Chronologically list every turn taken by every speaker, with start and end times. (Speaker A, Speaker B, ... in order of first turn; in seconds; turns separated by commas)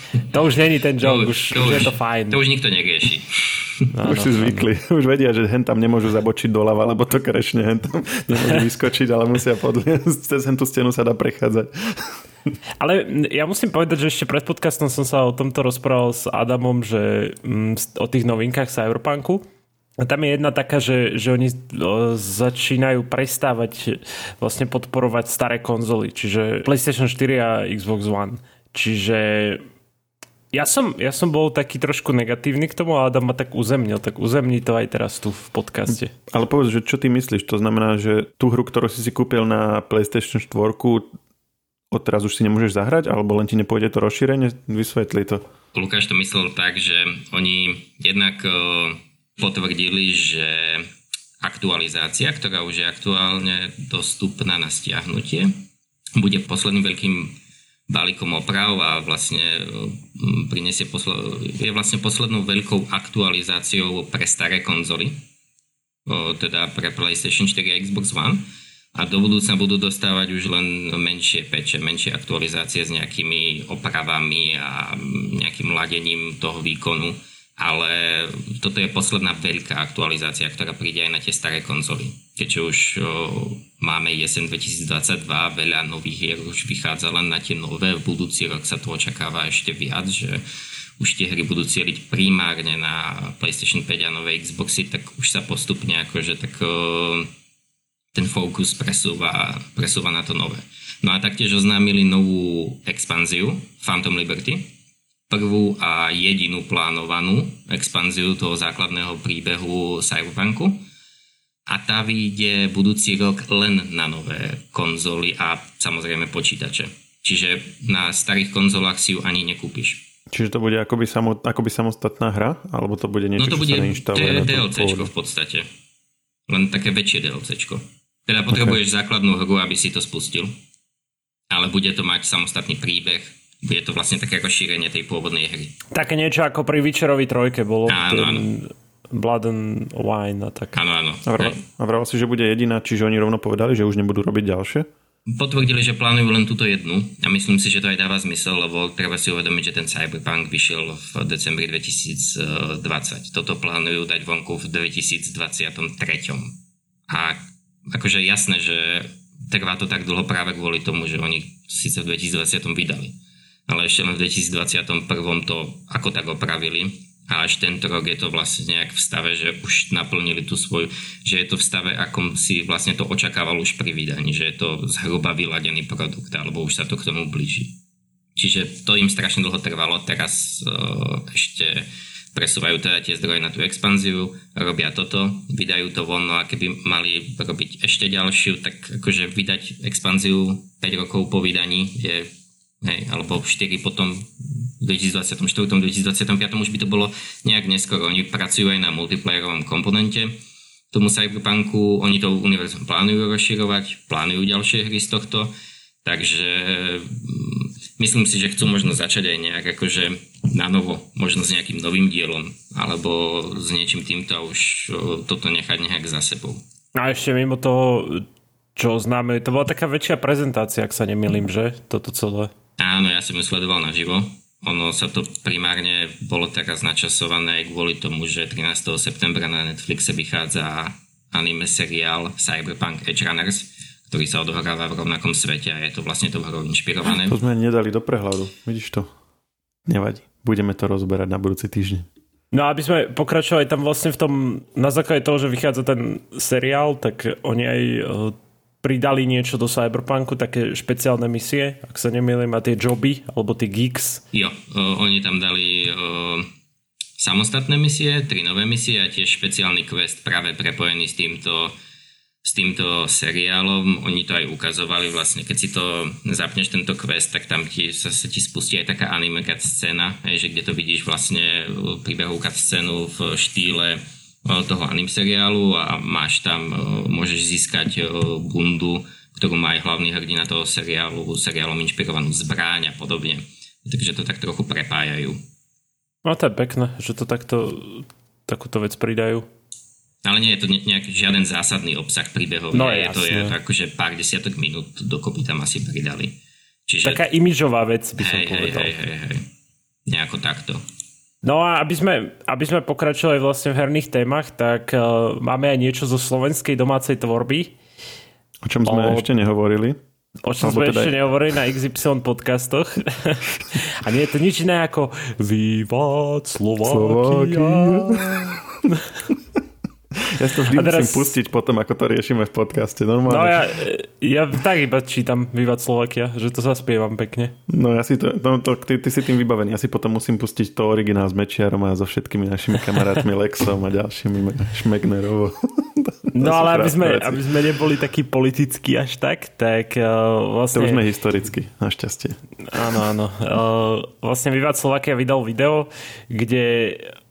Speaker A: 0.3-2.4, Speaker B: 1.0-3.9, Speaker A: 3.9-4.7, Speaker C: 4.0-12.2, Speaker A: 12.8-19.4, Speaker A: 20.0-29.6, Speaker A: 30.5-36.1, Speaker C: 36.3-41.1, Speaker C: 41.9-45.4, Speaker B: 45.7-50.9, Speaker B: 51.4-55.5, Speaker B: 56.2-57.4, Speaker B: 57.9-65.2, Speaker B: 66.1-68.4, Speaker B: 69.0-90.4, Speaker B: 91.0-97.3, Speaker B: 98.1-104.7, Speaker B: 105.3-110.8, Speaker B: 111.7-120.0, Speaker C: 120.3-125.1, Speaker B: 123.4-125.7, Speaker B: 126.5-130.5, Speaker C: 128.5-128.8, Speaker B: 131.5-135.8, Speaker A: 135.9-140.8, Speaker B: 137.9-138.5, Speaker B: 140.7-141.6, Speaker C: 141.3-144.9, Speaker B: 145.3-156.6, Speaker B: 157.1-163.2, Speaker B: 163.7-177.8, Speaker B: 178.4-192.3, Speaker B: 192.8-200.3, Speaker B: 200.9-205.5, Speaker B: 206.0-216.6, Speaker A: 216.9-222.5, Speaker B: 222.8-237.4, Speaker C: 237.2-239.1, Speaker C: 239.9-242.1, Speaker A: 242.5-254.2, Speaker B: 254.3-256.5, Speaker B: 257.2-261.7, Speaker B: 262.4-285.4, Speaker A: 286.2-289.5, Speaker B: 290.2-296.4, Speaker A: 292.7-293.5, Speaker B: 296.9-297.2, Speaker A: 297.0-298.9, Speaker B: 298.2-299.5, Speaker B: 300.1-300.8, Speaker A: 301.4-307.7, Speaker C: 308.6-310.0, Speaker A: 308.9-309.3, Speaker A: 310.4-318.5, Speaker C: 310.6-311.1, Speaker C: 316.8-318.6, Speaker C: 320.2-323.7, Speaker A: 320.7-321.3, Speaker A: 323.3-327.6, Speaker C: 327.7-337.4, Speaker A: 336.4-341.0, Speaker C: 340.7-342.4, Speaker A: 342.7-347.1